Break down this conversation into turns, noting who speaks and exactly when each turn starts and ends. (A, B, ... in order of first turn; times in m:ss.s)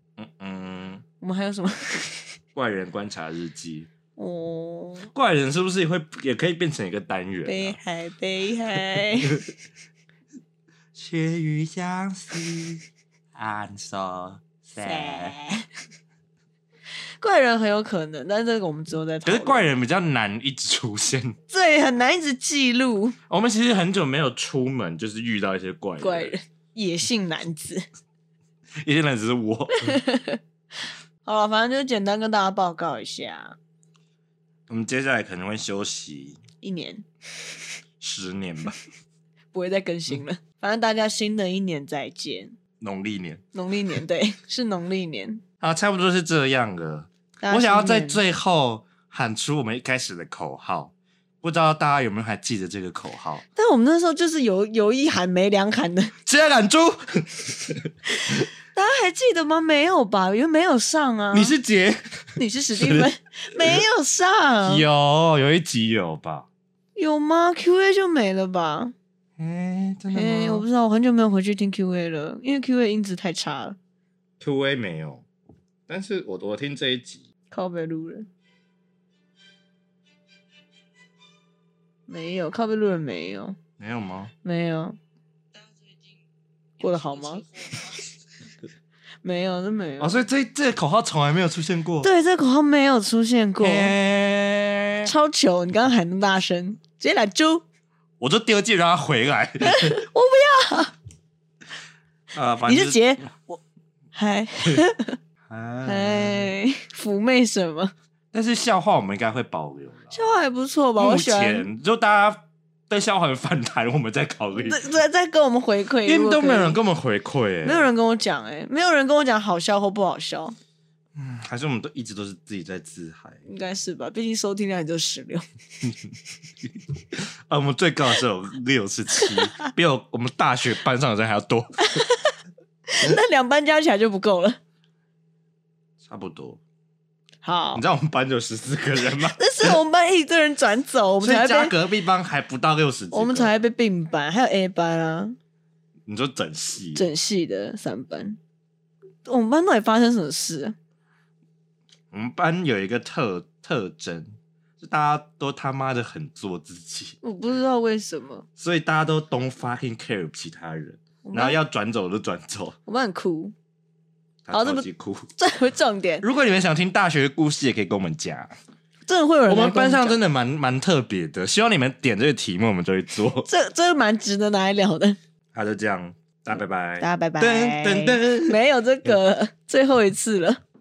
0:00.2-0:01.0 A
0:01.2-0:02.4 B
0:02.6-0:03.9 A
0:04.2-0:05.1 B
0:05.1-0:07.8 A
0:07.5-0:09.4 B
0:09.2-0:09.5 A
0:10.9-0:15.4 A
0:14.8-0:15.7 B
0:17.2-0:19.7 B
0:19.2-0:21.4 A
0:21.5-0:23.2 B
0:23.3-0:26.4 A
0:26.0-0:27.8 B
0:28.8-0:30.0 A
0:29.8-0:30.4 B
0:31.2-0:33.6 B
0:34.7-0:36.4 A
0:36.6-0:37.0 B
0:38.0-0:38.8 A
0:39.5-0:42.6 B
0:42.8-0:43.4 A
0:43.5-0:45.4 B
0:45.6-0:53.4 A
0:47.4-0:48.2 B
0:53.6-0:56.1 B
0:56.3-0:57.9 A
0:58.7-1:01.6 B
1:01.3-1:03.8 A
1:02.4-1:04.9 B
1:04.6-1:06.5 A
1:07.0-1:08.9 B
1:09.4-1:10.6 A
1:10.1-1:13.8 B
1:14.4-1:15.2 A
1:15.9-1:17.2 A
1:17.5-1:18.3 B
1:22.1-1:23.6 B
1:23.8-1:24.3 A
1:24.4-1:25.0 B
1:26.8-1:27.8 B
1:29.2-1:30.2 B
1:30.0-1:32.1 A
1:32.0-1:33.9 B
1:33.6-1:35.1 A
1:35.0-1:37.6 B
1:38.2-1:40.0 A
1:39.6-1:40.9 B
1:42.3-1:43.0 A
1:42.7-1:43.6 B
1:44.1-1:45.2 B
1:45.5-1:46.5 A
1:45.9-1:47.9 B
1:48.3-1:50.3 A
1:50.1-1:51.7 B
1:51.0-1:54.8 A
1:54.6-1:56.8 B
1:56.0-1:57.9 A
1:57.6-2:00.6 B
2:01.2-2:03.4 A
2:03.4-2:05.4 B
2:06.7-2:11.8 A
2:09.2-2:09.7 B
2:11.9-2:12.3 B
2:12.9-2:14.6 B
2:16.0-2:16.6 A
2:17.4-2:17.8 B
2:17.7-2:19.8 A
2:19.4-2:21.8 B
2:21.2-2:23.5 A
2:23.1-2:25.4 B
2:26.1-2:27.1 A
2:27.0-2:28.4 B
2:29.3-2:30.8 B
2:32.1-2:37.2 A
2:37.2-2:38.4 B
2:38.6-2:42.8 A
2:41.2-2:41.6 B
2:42.9-2:43.5 B
2:44.4-2:45.3 A
2:44.5-2:44.9 B
2:45.4-2:46.2 B
2:46.2-2:48.5 A
2:49.1-2:50.2 B
2:49.5-2:53.5 A
2:53.5-2:55.2 B
2:55.5-2:58.6 A
2:57.0-3:00.6 B